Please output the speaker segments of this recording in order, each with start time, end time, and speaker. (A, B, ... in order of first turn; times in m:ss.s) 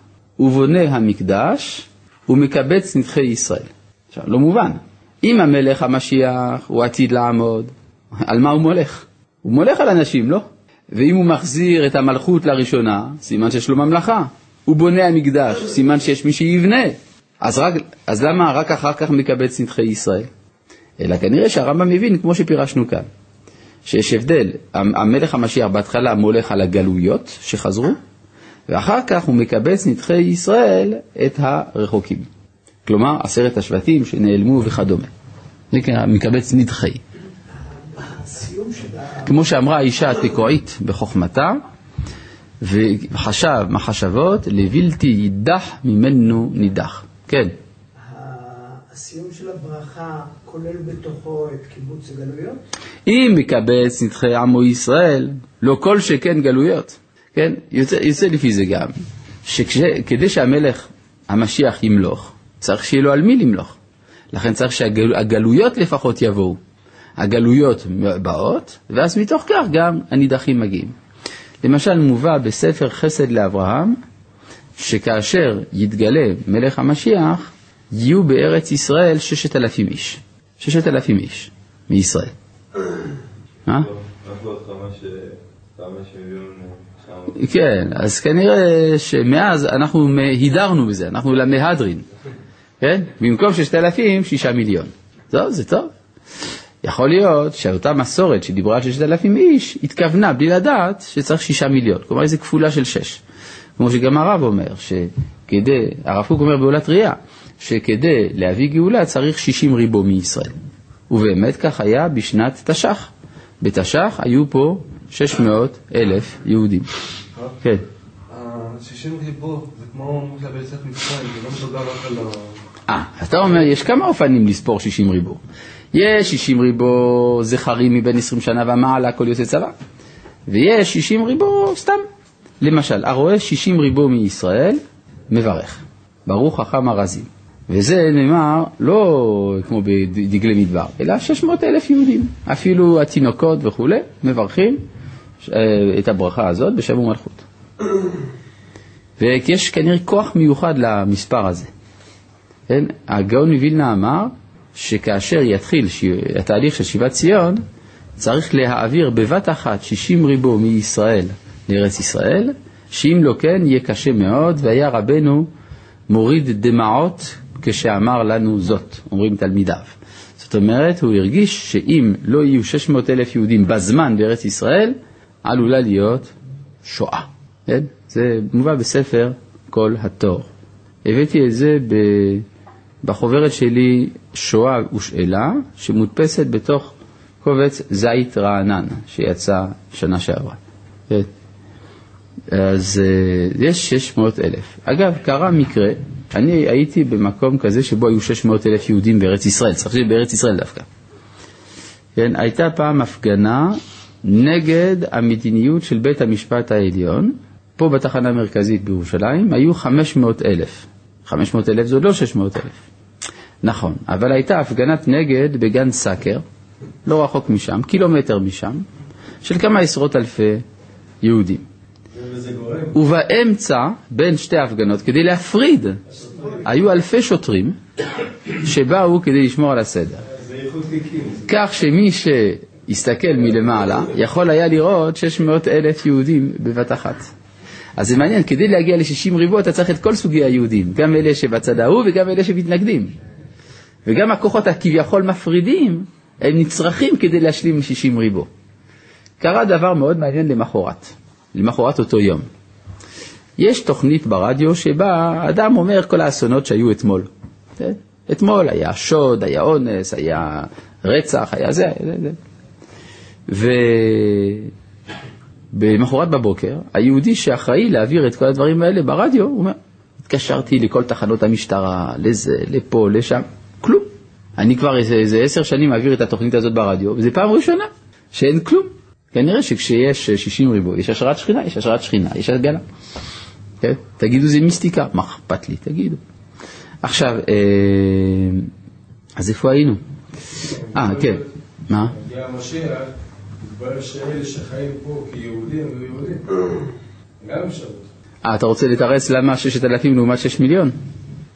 0:00.4-0:20.3 A
0:21.0-0:23.1 A
0:23.8-0:28.0 A
0:28.7-0:32.3 A
0:32.8-0:35.1 A
0:35.7-0:37.0 A
0:37.6-0:39.4 B
0:39.2-0:41.6 A
0:42.6-0:47.5 A
0:48.0-0:52.6 B
0:53.1-1:03.7 A
1:04.3-1:06.6 A
1:07.2-1:10.9 A
1:11.6-1:14.0 A
1:14.8-1:22.3 A
1:23.7-1:27.4 C
1:27.3-1:32.0 A
1:32.8-1:35.9 A
1:36.8-1:43.2 A
1:43.8-1:50.5 A
1:51.1-1:56.9 A
1:58.3-2:02.6 D
2:02.9-2:05.4 A
2:05.9-2:09.7 A
2:10.5-2:12.0 A
2:12.6-2:24.8 A
2:25.4-2:27.4 A
2:29.2-2:31.7 A
2:32.7-2:37.6 A
2:38.2-2:45.5 A
2:46.1-2:56.3 A
2:56.8-3:00.5 A
3:01.0-3:02.4 A
3:03.0-3:10.6 A
3:12.5-3:20.8 A
3:22.2-3:32.8 A
3:33.6-3:36.4 A
3:37.0-3:38.8 A
3:39.4-3:40.6 A
3:41.2-3:41.6 A
3:42.1-3:43.0 E
3:42.9-3:46.0 A
3:46.1-3:46.6 E
3:46.6-3:47.8 A
3:48.6-3:50.2 A
3:50.3-3:51.5 E
3:51.5-3:57.3 A
3:58.0-4:03.1 A
4:04.0-4:08.5 A
4:09.4-4:12.5 A
4:13.6-4:22.4 A
4:23.5-4:24.7 A
4:25.7-4:42.8 A
4:43.8-4:46.2 A
4:47.0-4:48.7 A
4:49.4-4:50.0 A
4:50.8-4:51.5 E
4:50.9-4:52.1 A
4:52.0-4:56.4 E
4:57.4-4:58.1 E
4:58.4-5:00.9 A